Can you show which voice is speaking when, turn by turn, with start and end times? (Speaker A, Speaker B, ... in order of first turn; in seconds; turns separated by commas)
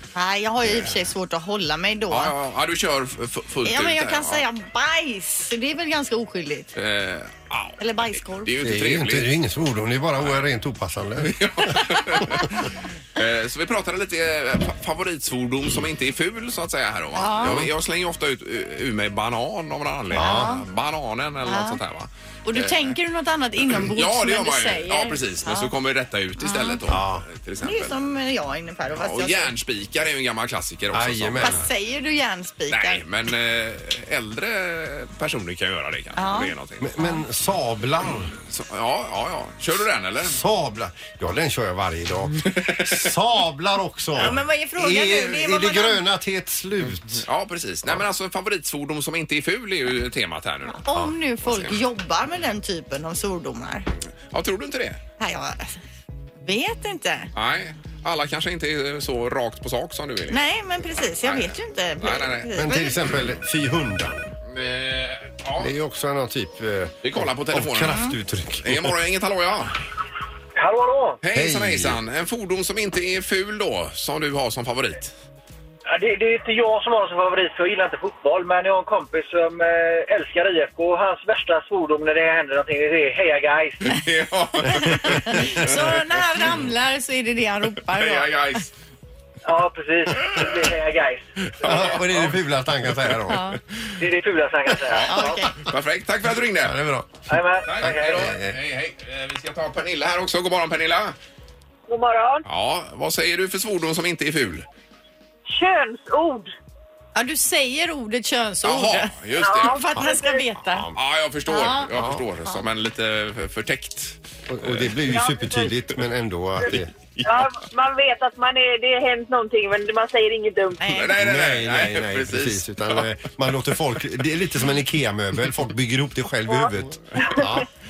Speaker A: 0.1-2.3, Speaker B: 2.1-4.4, Speaker A: 3.6-6.7, Speaker B: 6.7-9.3, Speaker A: 7.8-8.5, Speaker C: 8.6-12.5, Speaker B: 11.2-22.9, Speaker A: 17.1-17.7, Speaker C: 20.1-20.6, Speaker A: 20.2-20.6, Speaker A: 21.4-21.8, Speaker A: 22.4-25.7, Speaker B: 23.7-27.9, Speaker A: 26.4-26.8, Speaker C: 26.9-27.2, Speaker A: 27.6-29.5, Speaker B: 28.9-31.6, Speaker C: 30.9-31.7, Speaker A: 31.4-33.0, Speaker B: 32.7-36.9, Speaker A: 36.1-37.2, Speaker C: 36.8-38.3, Speaker B: 38.4-40.4, Speaker C: 40.2-47.2, Speaker B: 42.5-43.0, Speaker A: 44.2-46.0, Speaker B: 47.2-50.8, Speaker A: 50.7-53.9, Speaker B: 51.4-51.8, Speaker B: 54.3-55.0, Speaker A: 55.2-55.8, Speaker A: 56.4-57.3, Speaker B: 57.3-60.4, Speaker A: 60.3-63.0, Speaker B: 61.2-62.6, Speaker C: 62.6-64.3, Speaker B: 64.5-65.7, Speaker C: 65.6-69.0, Speaker B: 67.0-68.0, Speaker B: 68.6-69.8, Speaker D: 70.5-71.2, Speaker B: 71.2-75.1, Speaker C: 71.3-72.0, Speaker D: 75.9-84.0, Speaker B: 83.8-85.8, Speaker A: 84.7-88.3, Speaker B: 87.9-88.7, Speaker D: 89.4-91.8, Speaker C: 91.6-93.5, Speaker B: 91.6-92.2, Speaker A: 93.3-93.6, Speaker D: 94.0-95.4, Speaker B: 94.9-96.8, Speaker A: 95.0-95.5, Speaker C: 96.6-97.1, Speaker D: 97.3-98.2, Speaker B: 97.7-101.2, Speaker C: 97.8-98.6, Speaker E: 101.9-102.4, Speaker B: 102.5-104.7, Speaker E: 105.5-106.5, Speaker A: 107.2-110.9, Speaker B: 108.6-109.8, Speaker E: 109.4-110.4, Speaker C: 110.0-111.0, Speaker B: 110.9-115.0, Speaker A: 111.5-111.9, Speaker C: 112.0-112.2, Speaker C: 114.5-116.9, Speaker E: 115.1-115.7, Speaker B: 117.2-117.5, Speaker E: 117.2-120.8, Speaker A: 120.8-121.1, Speaker B: 120.9-123.0, Speaker C: 121.2-127.7